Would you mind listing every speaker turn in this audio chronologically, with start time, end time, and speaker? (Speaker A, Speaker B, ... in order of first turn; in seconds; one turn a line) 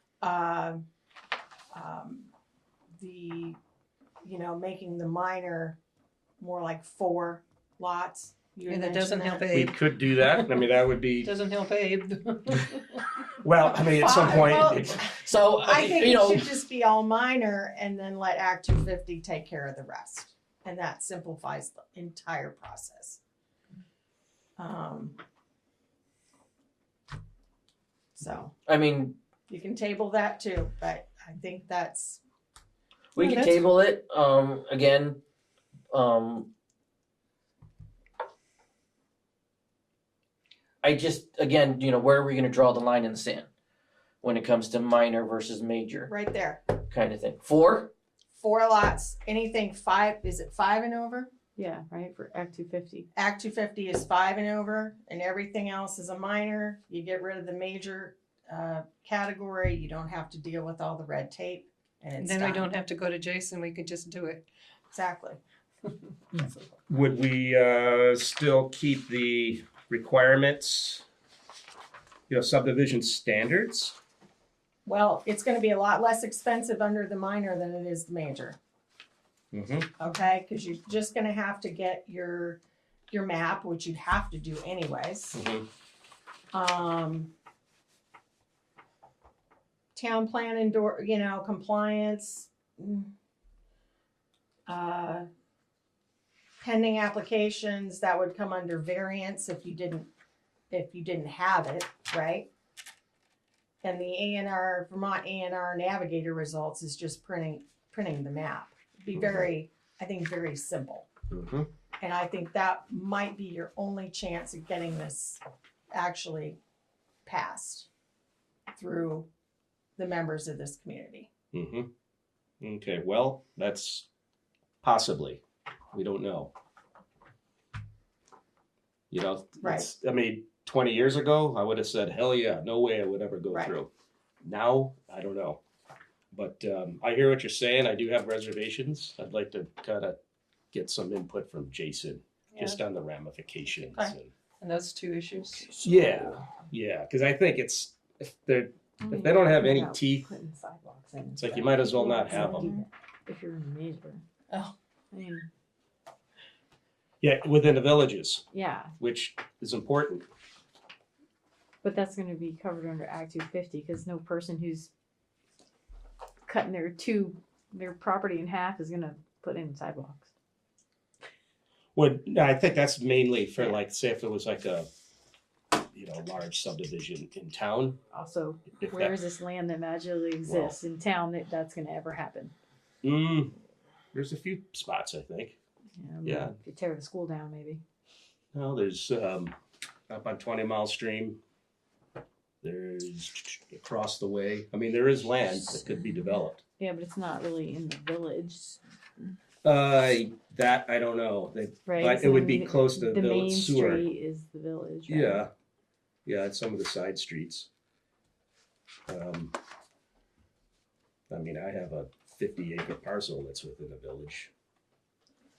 Speaker A: 0.2-0.8
Speaker A: 1.7-2.3
Speaker A: 3.0-3.6
Speaker A: 4.2-5.8
Speaker A: 6.4-9.5
Speaker B: 8.7-10.6
Speaker C: 9.5-11.3
Speaker B: 11.2-13.1
Speaker C: 13.4-15.1
Speaker A: 13.7-23.2
Speaker D: 15.2-16.5
Speaker A: 24.6-25.2
Speaker A: 28.1-28.5
Speaker D: 28.7-29.2
Speaker A: 29.5-32.2
Speaker D: 33.2-35.2
Speaker B: 33.2-33.6
Speaker D: 35.9-36.5
Speaker D: 40.8-43.5
Speaker D: 44.2-46.1
Speaker A: 46.1-46.6
Speaker D: 46.9-47.9
Speaker A: 48.4-51.3
Speaker E: 51.6-53.1
Speaker A: 53.1-62.7
Speaker B: 62.2-64.4
Speaker A: 64.9-65.4
Speaker C: 66.9-71.0
Speaker C: 72.3-74.0
Speaker A: 74.8-78.6
Speaker C: 79.5-79.9
Speaker A: 80.0-82.6
Speaker A: 83.1-85.4
Speaker C: 85.3-85.7
Speaker A: 86.5-87.3
Speaker A: 90.0-93.1
Speaker A: 94.7-95.3
Speaker A: 96.6-100.1
Speaker A: 100.7-102.5
Speaker A: 103.8-111.1
Speaker C: 109.2-109.5
Speaker C: 111.3-111.7
Speaker A: 112.0-115.4
Speaker A: 115.9-116.6
Speaker A: 117.3-117.9
Speaker A: 118.7-119.3
Speaker A: 120.0-121.3
Speaker C: 121.5-121.9
Speaker C: 122.6-124.1
Speaker C: 124.8-125.4
Speaker C: 125.9-126.5
Speaker C: 129.1-133.9
Speaker A: 129.6-129.9
Speaker C: 134.4-135.6
Speaker C: 136.3-140.2
Speaker C: 140.7-144.3
Speaker B: 142.5-142.8
Speaker A: 143.8-144.2
Speaker B: 144.6-146.4
Speaker C: 145.8-150.3
Speaker E: 149.0-154.2
Speaker C: 151.4-152.7
Speaker A: 152.3-152.8
Speaker E: 155.1-155.5
Speaker C: 157.2-158.5
Speaker E: 158.5-158.9
Speaker C: 159.0-160.3
Speaker E: 161.8-164.9
Speaker E: 166.5-170.3
Speaker C: 171.9-174.9
Speaker C: 175.9-178.0
Speaker E: 178.1-182.5
Speaker C: 178.7-179.2
Speaker C: 180.4-180.8
Speaker C: 183.0-183.5
Speaker C: 184.1-185.6
Speaker E: 186.0-187.8
Speaker C: 186.2-186.5
Speaker C: 188.5-189.6
Speaker C: 190.1-191.4
Speaker C: 192.6-196.6
Speaker E: 196.8-198.8
Speaker C: 199.6-204.1
Speaker E: 201.9-205.4
Speaker C: 205.1-205.5
Speaker C: 206.3-207.7
Speaker C: 209.1-209.6
Speaker C: 211.3-214.5